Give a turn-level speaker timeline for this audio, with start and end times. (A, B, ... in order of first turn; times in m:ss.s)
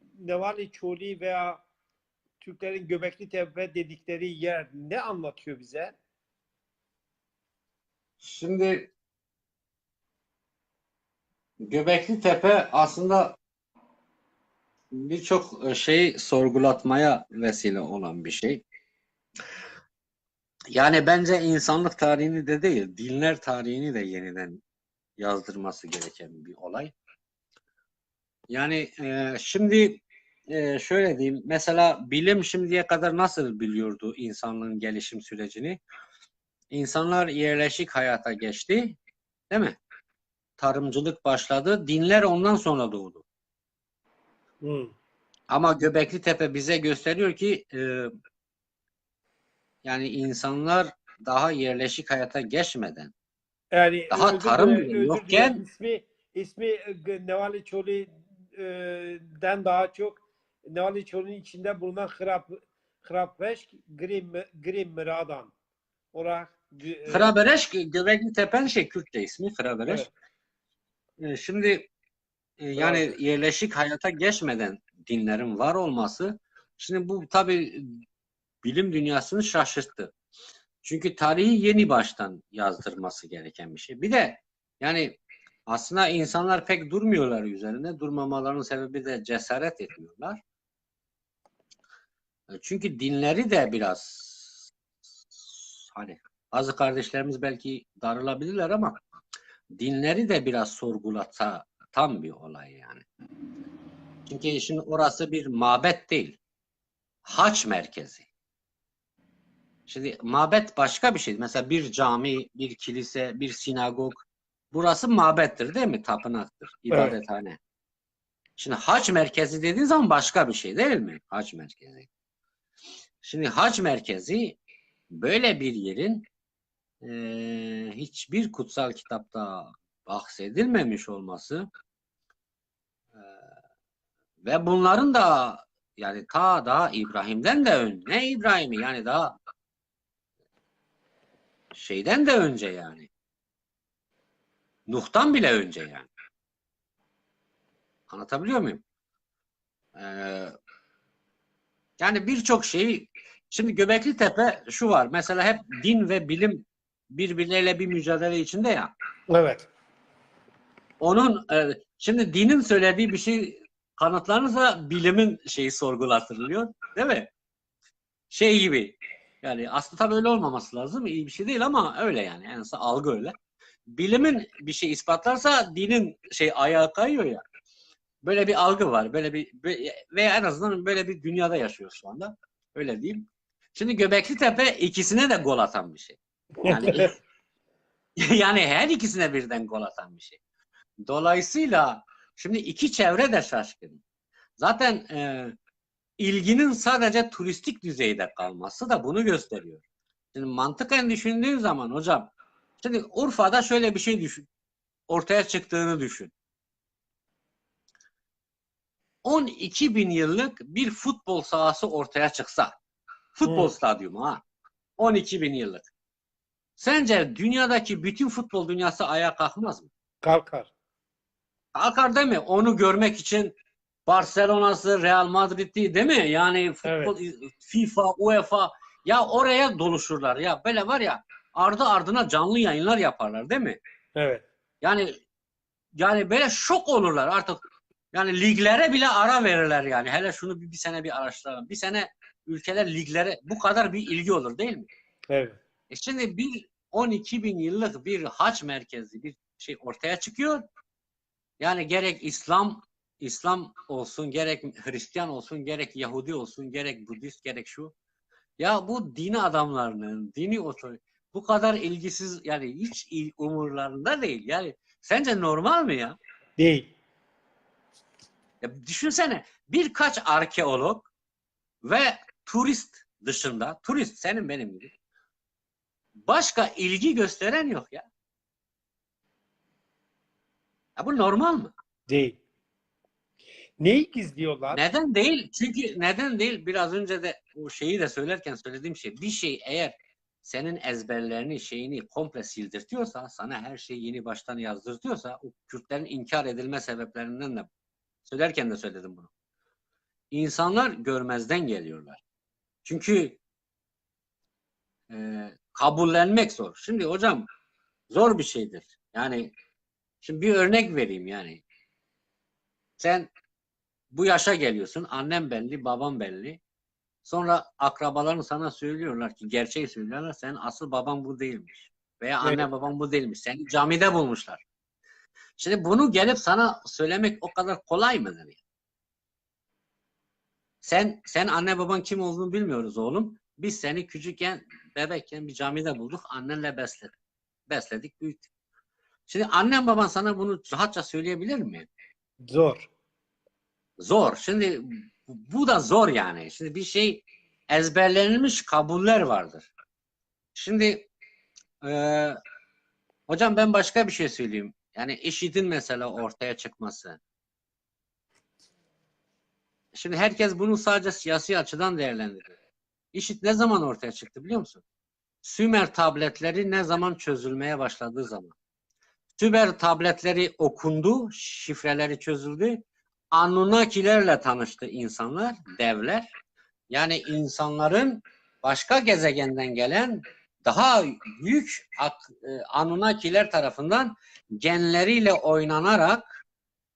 0:00.2-0:01.6 A
0:02.4-0:06.0 A
0:08.2-0:08.9 B
0:11.6-0:13.4 B
0:14.9-0:18.6 B
0:20.7-0:24.6 B
0:25.2-0:26.9 B
0:28.5-0:35.8 B
0:36.7-0:39.0 B
0:39.5-0:39.8 B
0:40.6-0:43.2 B
0:44.6-0:44.9 A
0:45.5-0:48.1 B
0:49.8-0:53.1 B
0:53.7-1:05.5 A
0:54.1-0:55.6 B
1:06.1-1:07.3 A
1:07.1-1:10.1 B
1:11.2-1:11.9 B
1:12.6-1:18.0 B
1:12.8-1:13.1 A
1:18.6-1:20.1 B
1:20.8-1:30.4 B
1:32.5-1:34.7 B
1:35.3-1:39.0 B
1:39.8-1:43.0 B
1:44.3-1:46.4 B
1:47.3-1:48.3 B
1:49.9-1:57.6 B
1:58.6-2:02.1 B
2:03.2-2:04.6 B
2:05.1-2:06.3 B
2:07.0-2:11.7 B
2:14.4-2:19.4 B
2:21.7-2:23.1 B
2:24.9-2:26.1 B
2:28.1-2:28.8 B
2:30.0-2:30.5 B
2:32.0-2:38.9 B
2:39.3-2:39.7 A
2:41.0-2:47.3 B
2:48.3-2:53.4 B
2:53.9-2:57.4 B
2:58.2-3:07.2 B
3:06.6-3:07.0 A
3:08.2-3:10.4 B
3:11.1-3:14.0 B
3:14.6-3:15.5 B
3:16.2-3:19.8 B
3:20.3-3:24.5 B
3:25.1-3:26.3 B
3:29.2-3:32.8 B
3:33.4-3:34.4 B
3:33.4-3:33.7 A
3:35.0-3:35.9 B
3:36.8-3:39.9 B
3:40.2-3:40.7 A
3:41.8-3:43.6 B
3:44.1-3:53.8 B
3:46.8-3:47.1 A
3:54.2-3:54.4 A
3:54.8-3:55.1 B
3:56.0-3:57.6 B
3:58.1-4:04.9 B
4:05.3-4:05.6 A
4:05.9-4:10.6 B
4:11.6-4:17.9 B
4:18.6-4:26.2 B
4:26.6-4:26.9 A
4:28.6-4:31.1 B
4:31.8-4:34.9 B
4:36.3-4:38.1 B
4:41.0-4:41.7 B
4:42.1-4:42.4 A
4:43.8-4:44.8 A
4:44.7-4:57.7 B
4:58.2-4:59.3 B
5:00.3-5:02.2 B
5:02.8-5:03.4 B
5:05.1-5:07.4 B
5:08.1-5:09.5 B
5:10.2-5:11.6 B
5:13.0-5:13.3 B
5:14.1-5:16.6 B
5:17.2-5:24.6 B
5:25.6-5:28.6 B
5:30.8-5:37.1 B
5:37.7-5:38.5 B
5:39.3-5:41.9 B
5:42.5-5:42.9 A
5:44.0-5:49.7 B
5:50.6-5:51.1 B
5:51.8-5:52.4 B
5:53.3-5:57.2 B
5:59.9-6:02.6 B
6:03.1-6:04.8 B
6:05.4-6:08.6 B
6:09.4-6:16.4 B
6:16.9-6:26.4 B